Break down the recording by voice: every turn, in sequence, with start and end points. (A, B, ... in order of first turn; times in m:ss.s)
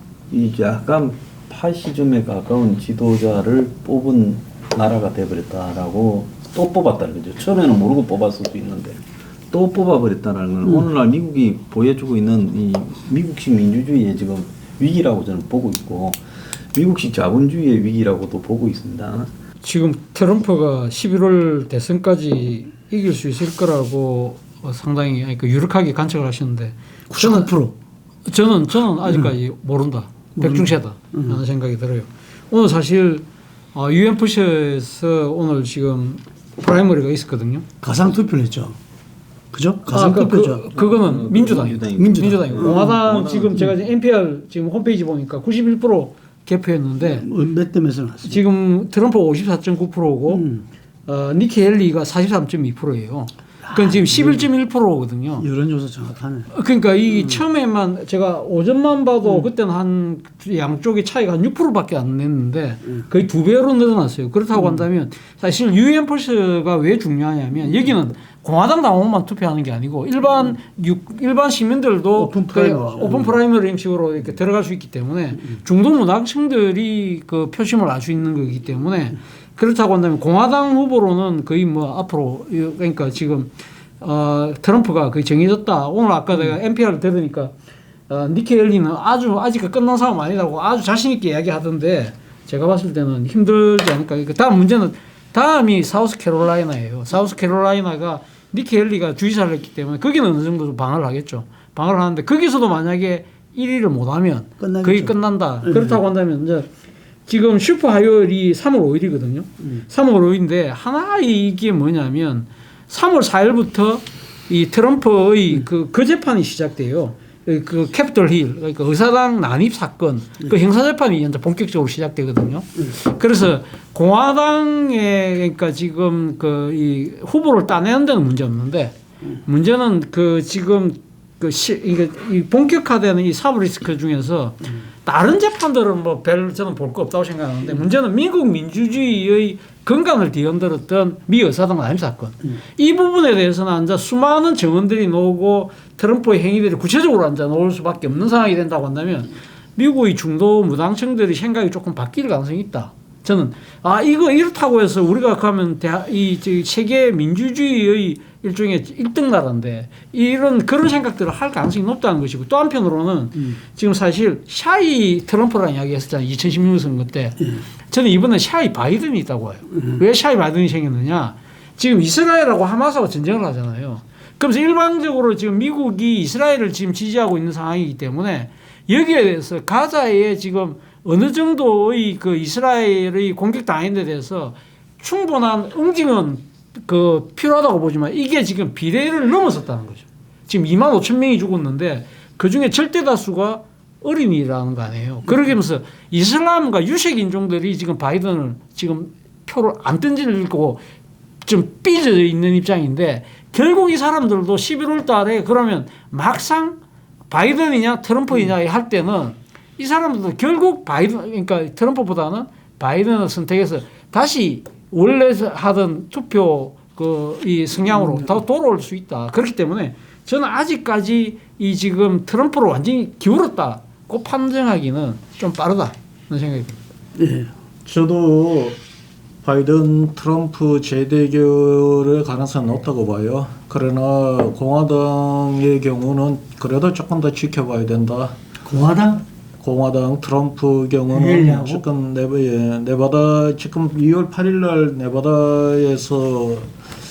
0:00.3-0:16.2 A
0:16.7-0:19.3 A
0:19.6-0:27.5 B
0:27.1-0:27.7 C
0:28.2-0:37.6 B
0:30.4-0:31.4 C
0:37.8-0:38.8 C
0:39.5-0:40.6 C
0:39.9-0:47.2 B
0:40.7-0:43.7 A
0:42.0-0:43.0 C
0:47.0-0:48.4 C
0:48.2-0:50.4 B
0:50.3-0:50.6 C
0:51.1-0:55.5 B
0:53.6-0:54.5 C
0:55.4-0:56.5 C
0:56.5-1:27.5 B
1:04.6-1:04.8 C
1:12.2-1:13.4 C
1:28.1-1:46.7 B
1:44.6-1:46.0 C
1:47.3-2:08.9 B
2:09.4-3:20.8 B
3:21.4-3:26.8 B
3:27.3-3:46.8 B
3:47.2-3:47.5 C
3:47.8-3:48.8 D
3:49.4-3:58.4 D
3:58.6-3:59.2 C
3:59.6-4:06.7 D
4:01.1-4:01.8 C